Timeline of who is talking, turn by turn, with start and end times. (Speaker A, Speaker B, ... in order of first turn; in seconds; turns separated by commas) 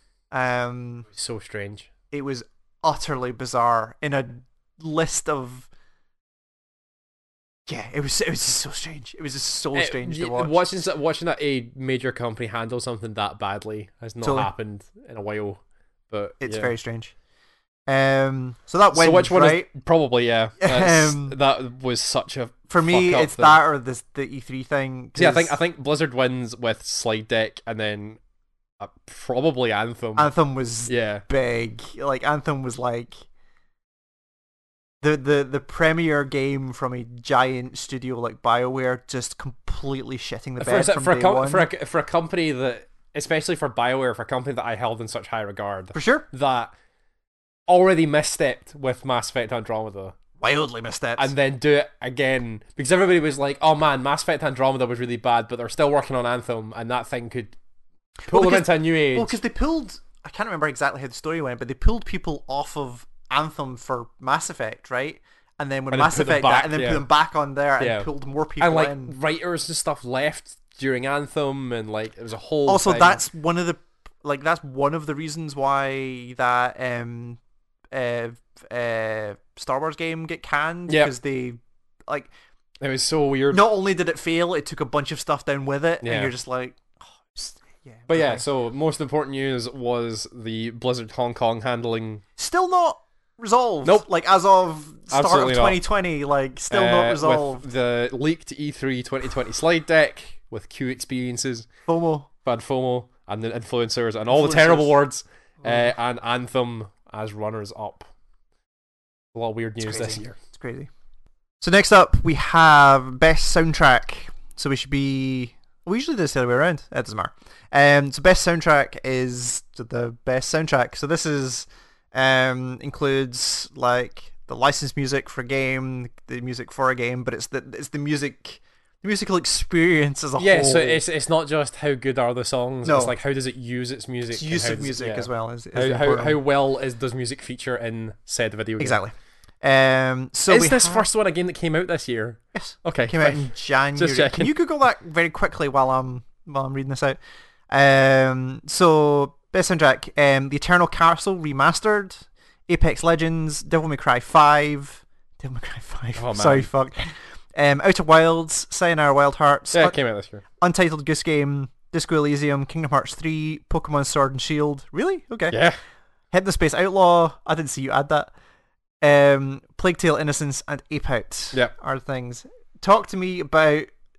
Speaker A: 0.3-1.1, Speaker B: 1.1-1.9, Speaker A: 2.1-5.7, Speaker A: 7.7-10.6, Speaker B: 9.7-16.7, Speaker A: 14.2-14.5, Speaker A: 16.4-17.1, Speaker A: 17.9-19.7, Speaker B: 18.9-23.6, Speaker A: 20.6-21.4, Speaker A: 22.7-25.6, Speaker B: 25.1-28.2, Speaker B: 28.8-30.3, Speaker A: 30.2-33.1, Speaker B: 30.9-31.2, Speaker A: 35.0-41.7, Speaker B: 40.6-46.7, Speaker A: 45.9-46.2, Speaker B: 47.7-50.1, Speaker A: 50.4-51.3, Speaker B: 51.2-57.5, Speaker A: 58.2-69.1, Speaker B: 58.3-59.4, Speaker B: 65.9-67.0, Speaker B: 67.8-68.1, Speaker B: 68.6-73.2, Speaker A: 72.7-77.4, Speaker A: 77.9-82.3, Speaker B: 80.9-81.1, Speaker B: 82.8-83.6, Speaker A: 83.5-88.4, Speaker B: 86.0-86.3, Speaker B: 88.1-92.2, Speaker A: 92.4-97.6, Speaker B: 95.1-95.8, Speaker B: 96.7-101.7, Speaker A: 101.9-102.3, Speaker B: 102.4-108.1, Speaker A: 104.3-104.9, Speaker A: 105.6-105.9, Speaker B: 109.3-110.4, Speaker A: 109.8-110.9, Speaker A: 111.6-131.0, Speaker B: 130.4-139.0, Speaker A: 132.8-133.1, Speaker A: 134.3-136.4, Speaker A: 138.8-141.1, Speaker B: 140.5-144.5, Speaker A: 142.5-147.2, Speaker A: 147.7-159.9, Speaker B: 156.2-156.7, Speaker B: 159.7-160.4, Speaker A: 160.6-165.6, Speaker B: 165.5-165.8, Speaker A: 166.3-168.3, Speaker A: 169.0-173.9